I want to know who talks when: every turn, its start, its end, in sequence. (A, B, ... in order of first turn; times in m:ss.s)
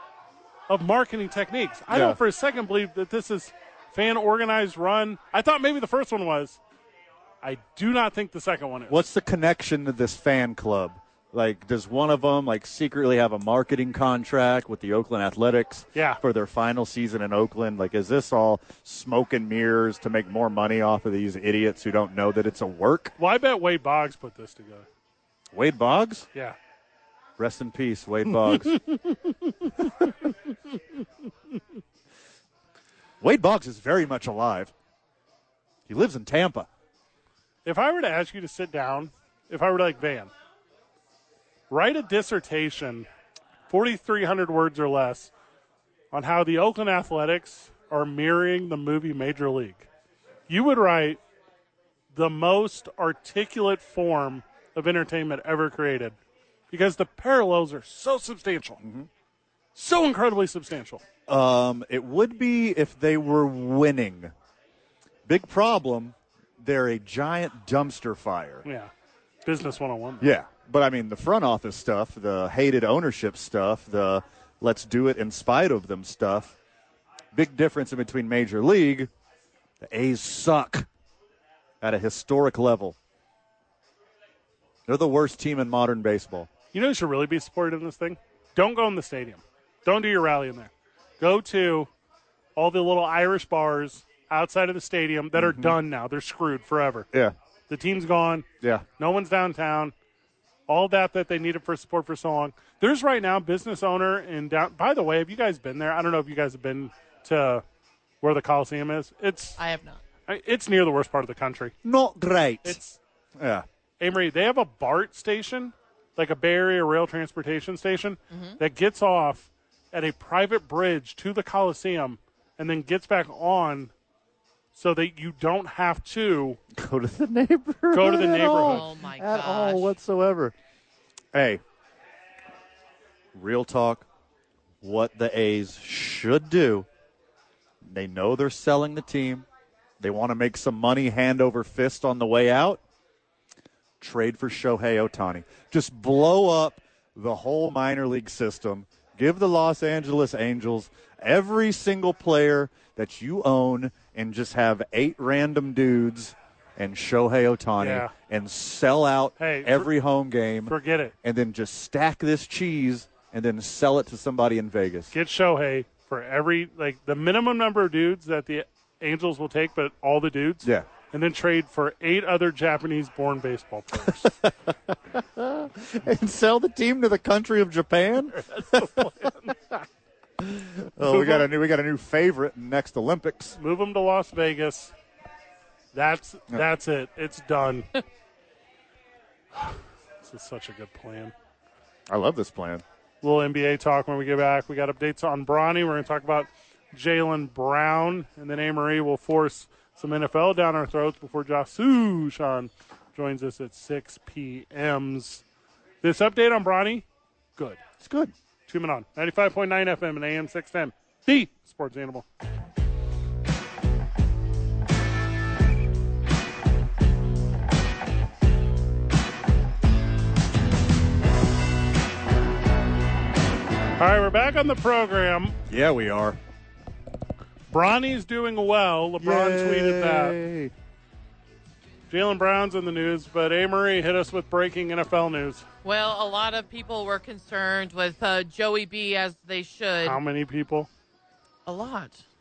0:00.7-0:06.6 A
0:01.9-0:02.2 B
0:07.4-0:09.0 A
0:08.9-0:23.1 B
0:15.9-0:16.2 A
0:23.2-0:24.9 A
0:25.5-0:26.3 B
0:27.4-0:28.8 B
0:28.6-0:30.1 A
0:29.8-0:30.1 B
0:33.2-0:34.7 B
0:35.9-0:36.7 B
0:37.6-0:40.3 A
0:41.7-0:43.1 A
0:43.7-0:45.3 A
0:46.1-0:49.9 A
0:50.5-0:51.2 A
0:52.1-0:56.2 A
0:56.7-0:58.8 A
0:58.8-0:59.1 B
0:59.7-1:01.0 A
1:01.3-1:04.3 B
1:05.2-1:08.6 B
1:08.6-1:08.9 A
1:09.4-1:10.3 A
1:10.2-1:16.6 B
1:17.3-1:19.1 B
1:19.8-1:20.9 B
1:21.8-1:23.0 B
1:24.9-1:26.5 B
1:26.7-1:31.9 A
1:32.6-1:37.1 A
1:35.4-1:35.8 B
1:37.7-1:38.5 A
1:39.0-1:39.9 A
1:40.7-1:47.6 A
1:48.2-1:49.6 A
1:49.6-1:50.0 C
1:50.3-1:51.7 A
1:51.8-1:52.8 B
1:52.6-1:53.0 A
1:53.4-1:53.6 B
1:54.0-2:03.9 A
1:58.3-1:58.6 C
2:04.7-2:06.6 A
2:06.7-2:10.5 B
2:07.9-2:08.8 A
2:08.4-2:09.9 C
2:11.3-2:11.6 B
2:13.3-2:14.0 B
2:14.8-2:16.9 B
2:17.8-2:19.4 B
2:20.0-2:22.8 B
2:24.0-2:45.1 B
2:37.8-2:38.1 A
2:39.4-2:39.9 A
2:40.7-2:41.1 A
2:45.1-2:54.3 A
2:54.1-2:59.1 B
2:58.4-2:59.5 A
3:00.4-3:03.6 B
3:01.0-3:01.4 A
3:03.6-3:04.9 A
3:05.9-3:07.9 A
3:09.5-3:11.3 A
3:12.1-3:12.8 B
3:13.2-3:25.4 A
3:26.0-3:27.0 A
3:28.0-3:28.3 B
3:28.7-3:32.2 A
3:44.0-3:45.6 A
3:45.7-3:46.4 B
3:47.7-3:50.4 A
3:49.2-3:50.7 B
3:52.1-3:55.6 A
3:55.8-4:00.2 C
4:00.0-4:00.9 A
4:01.6-4:02.2 C